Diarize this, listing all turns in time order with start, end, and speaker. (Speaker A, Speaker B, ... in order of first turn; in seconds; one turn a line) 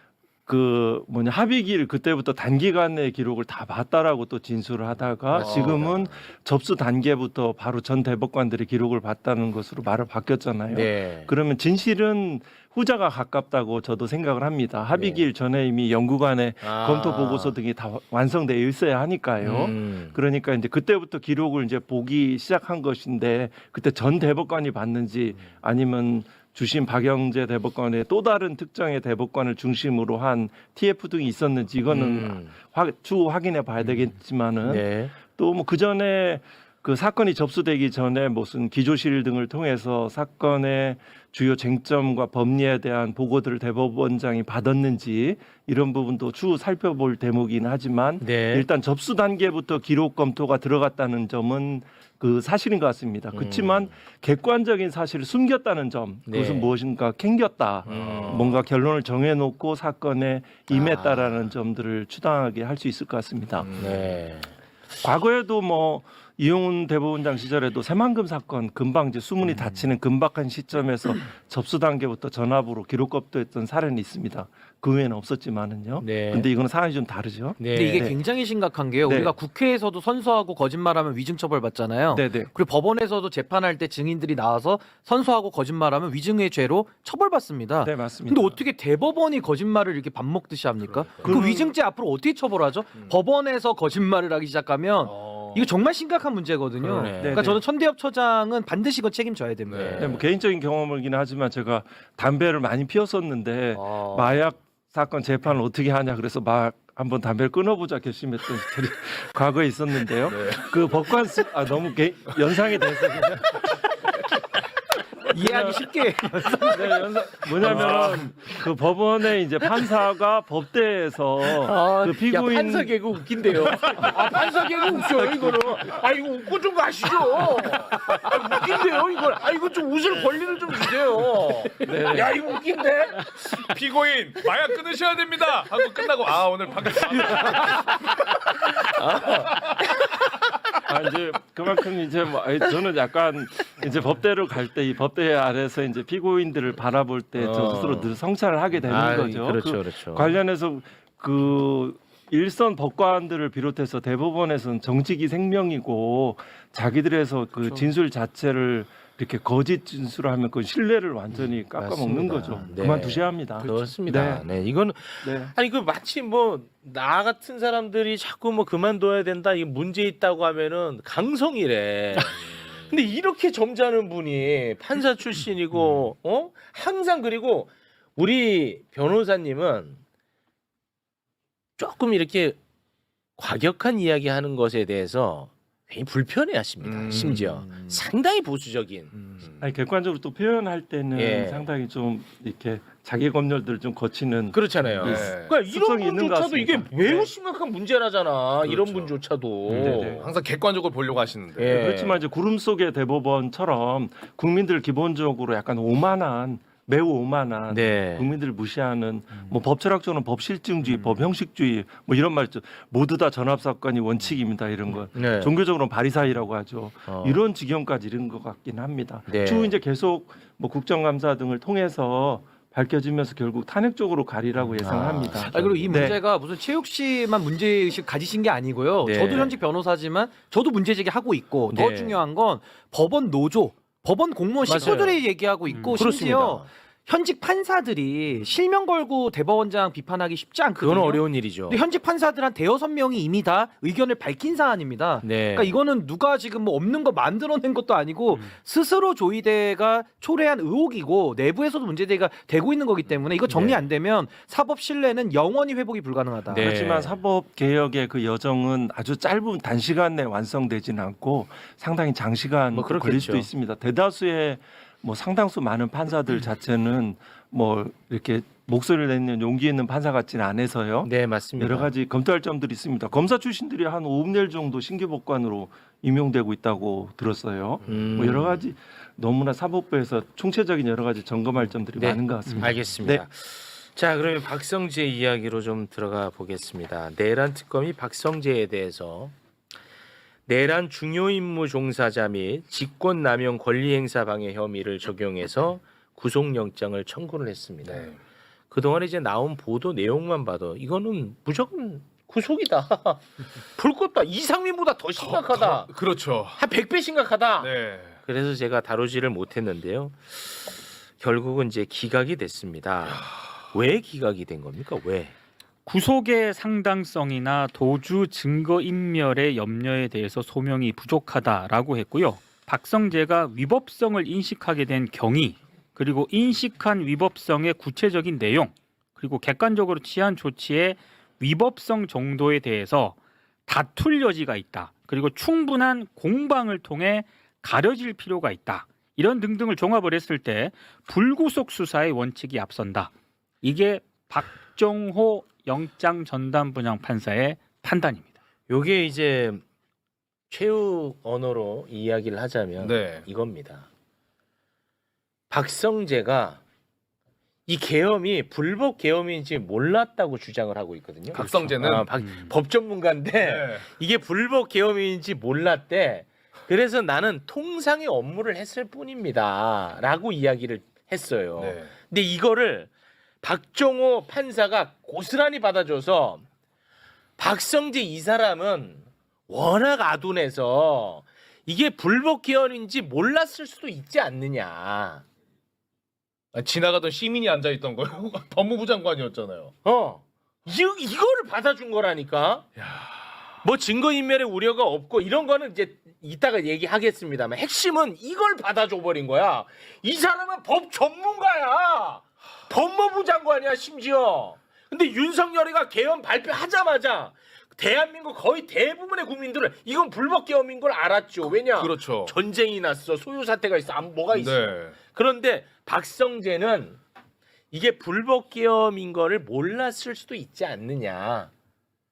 Speaker A: 0.5-63.7
Speaker B: 5.3-6.2
Speaker C: 5.4-5.8
Speaker B: 10.7-11.3
Speaker B: 14.9-15.2
Speaker B: 16.6-17.6
Speaker B: 19.4-20.1
Speaker B: 31.9-32.5
Speaker B: 34.6-35.1
Speaker B: 48.2-48.7
Speaker B: 53.3-53.9
Speaker B: 56.3-56.7
Speaker B: 57.9-58.6
Speaker C: 57.9-58.5
Speaker B: 60.7-61.4
Speaker C: 63.6-64.1
Speaker B: 63.8-64.5
Speaker A: 65.0-78.2
Speaker B: 76.0-76.5
Speaker B: 77.6-78.1
Speaker D: 77.7-100.2
Speaker A: 79.0-79.3
Speaker A: 82.1-82.5
Speaker A: 87.8-88.6
Speaker C: 90.8-91.4
Speaker A: 91.2-91.7
Speaker C: 95.0-95.7
Speaker B: 96.8-97.6
Speaker A: 97.2-97.6
Speaker C: 99.7-100.1
Speaker B: 99.7-100.2
Speaker A: 100.0-113.8
Speaker B: 103.8-104.4
Speaker C: 110.3-110.7
Speaker D: 115.3-117.1
Speaker A: 115.3-115.9
Speaker A: 116.6-123.0
Speaker C: 117.7-118.2
Speaker B: 121.5-133.8
Speaker A: 123.9-124.3
Speaker A: 125.0-125.7
Speaker C: 127.1-129.0
Speaker A: 131.8-132.4
Speaker C: 133.4-137.9
Speaker B: 136.9-140.9
Speaker C: 139.3-139.8
Speaker A: 140.8-164.5
Speaker B: 147.4-148.1
Speaker B: 148.9-150.4
Speaker B: 161.7-180.0
Speaker A: 165.2-165.5
Speaker B: 181.8-182.6
Speaker B: 183.4-189.1
Speaker C: 186.8-187.9
Speaker C: 189.1-189.7
Speaker A: 189.6-197.3
Speaker B: 191.2-191.7
Speaker B: 194.5-200.3
Speaker C: 195.0-195.5
Speaker C: 198.6-199.2
Speaker A: 199.7-200.3
Speaker C: 199.7-201.8
Speaker B: 201.6-202.2
Speaker A: 201.7-226.2
Speaker B: 207.7-208.3
Speaker B: 215.2-215.5
Speaker B: 217.1-217.4
Speaker B: 219.3-219.8
Speaker B: 224.8-226.2
Speaker D: 225.4-256.8
Speaker B: 229.0-229.5
Speaker B: 231.7-232.2
Speaker B: 234.7-236.7
Speaker E: 235.7-236.0
Speaker B: 240.8-241.8
Speaker B: 245.2-245.8
Speaker B: 253.5-253.8
Speaker B: 256.5-257.2
Speaker A: 256.5-283.2
Speaker B: 262.7-263.5
Speaker B: 271.1-271.9
Speaker B: 277.9-278.6
Speaker B: 282.0-289.4
Speaker B: 290.5-298.1
Speaker C: 297.8-298.2
Speaker B: 298.7-305.9
Speaker C: 305.2-306.6
Speaker B: 306.6-315.3
Speaker C: 307.6-308.2
Speaker E: 315.9-348.4
Speaker B: 348.7-349.6
Speaker B: 350.5-353.9
Speaker C: 352.8-353.2
Speaker B: 355.5-356.6
Speaker B: 357.7-372.9
Speaker C: 361.3-362.1
Speaker E: 362.2-362.5
Speaker C: 363.4-363.9
Speaker C: 371.6-371.9
Speaker B: 373.4-376.4
Speaker B: 377.4-385.2
Speaker C: 386.5-389.7
Speaker B: 389.8-392.7
Speaker C: 392.8-393.1
Speaker B: 393.6-417.0
Speaker C: 411.7-412.4
Speaker C: 414.3-415.0
Speaker B: 417.7-421.5